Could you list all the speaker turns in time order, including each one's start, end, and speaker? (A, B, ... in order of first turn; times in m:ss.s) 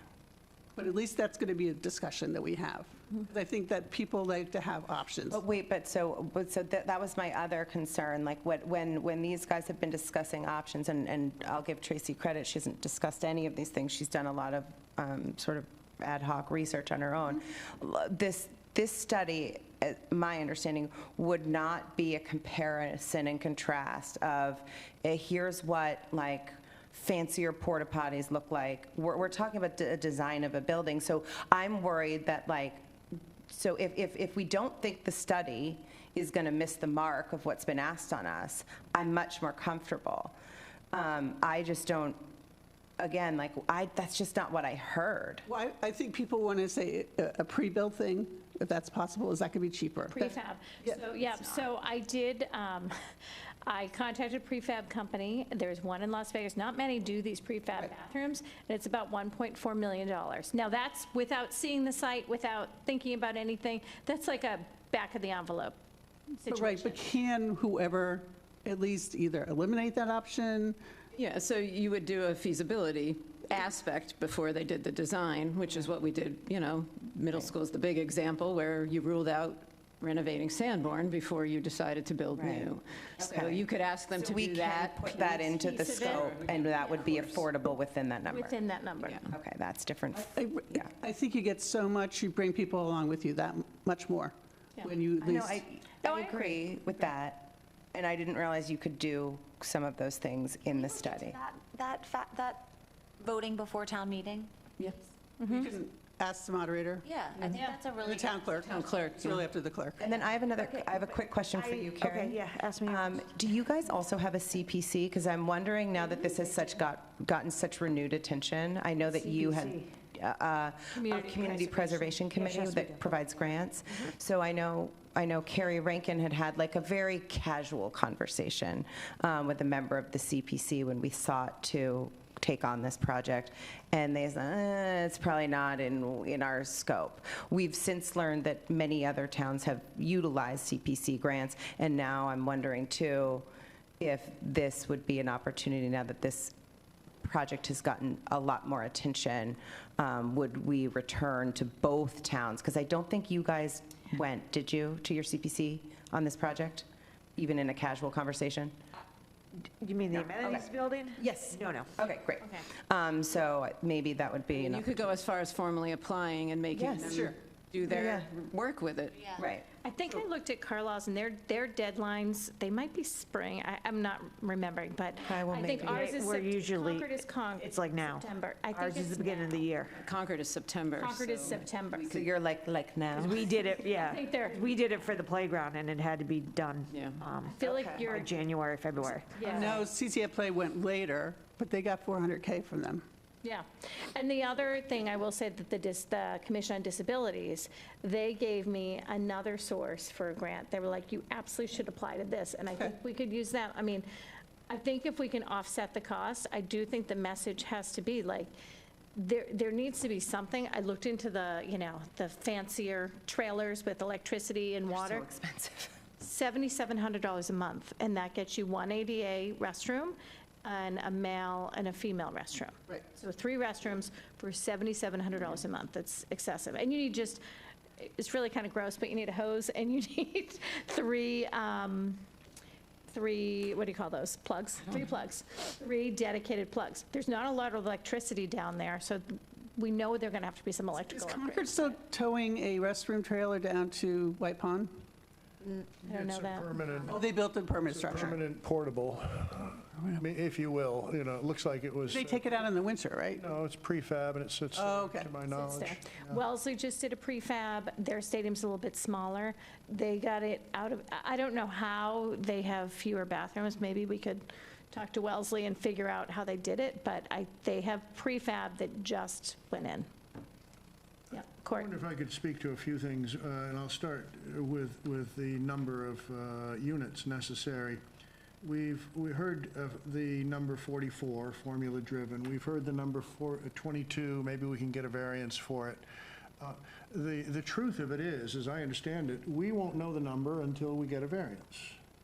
0:00.7-0:05.4 A
0:05.3-0:32.8 B
0:33.5-0:40.3 B
0:40.9-0:42.2 B
0:43.0-0:45.4 B
0:45.4-0:51.0 A
0:50.1-0:52.9 C
0:53.6-1:05.8 C
1:06.4-1:07.0 C
1:06.5-1:10.8 A
1:11.1-1:25.2 D
1:22.3-1:28.5 B
1:25.1-1:26.3 C
1:26.1-1:27.4 D
1:28.3-1:29.3 C
1:29.0-1:29.3 D
1:29.3-1:30.8 B
1:30.1-1:35.6 A
1:35.2-1:41.4 B
1:36.0-1:36.6 C
1:40.7-1:44.5 E
1:45.4-1:50.0 A
1:47.0-1:48.9 E
1:48.6-1:49.5 D
1:50.0-2:23.4 B
1:51.5-1:53.2 F
2:00.9-2:02.3 C
2:02.3-2:03.1 F
2:24.0-2:26.5 B
2:27.2-2:38.7 B
2:39.8-2:41.9 F
2:40.4-2:44.9 B
2:44.5-2:49.4 D
2:46.7-2:47.3 B
2:47.0-2:47.3 A
2:47.8-2:48.3 B
2:49.4-2:49.6 B
2:49.8-2:59.7 C
2:55.2-2:56.1 B
2:55.8-3:00.0 F
2:59.9-3:02.2 D
3:01.0-3:02.1 C
3:02.0-3:03.5 B
3:03.1-3:05.1 C
3:03.2-3:09.5 F
3:06.9-3:07.2 D
3:07.4-3:08.4 C
3:07.6-3:08.0 B
3:09.0-3:09.8 C
3:09.4-3:13.0 A
3:13.4-3:24.0 C
3:24.7-3:28.5 C
3:29.1-3:35.2 C
3:34.9-3:36.0 B
3:36.2-3:47.4 C
3:48.0-3:52.2 C
3:53.1-4:01.9 C
4:01.1-4:04.9 A
4:06.0-4:06.8 C
4:06.1-4:07.2 G
4:07.1-4:08.4 A
4:08.0-4:12.4 G
4:12.1-4:13.4 A
4:13.4-4:16.4 G
4:14.7-4:15.3 A
4:15.4-4:30.1 C
4:31.3-4:31.9 C
4:31.7-4:38.0 G
4:38.6-4:46.0 G
4:46.6-4:52.0 G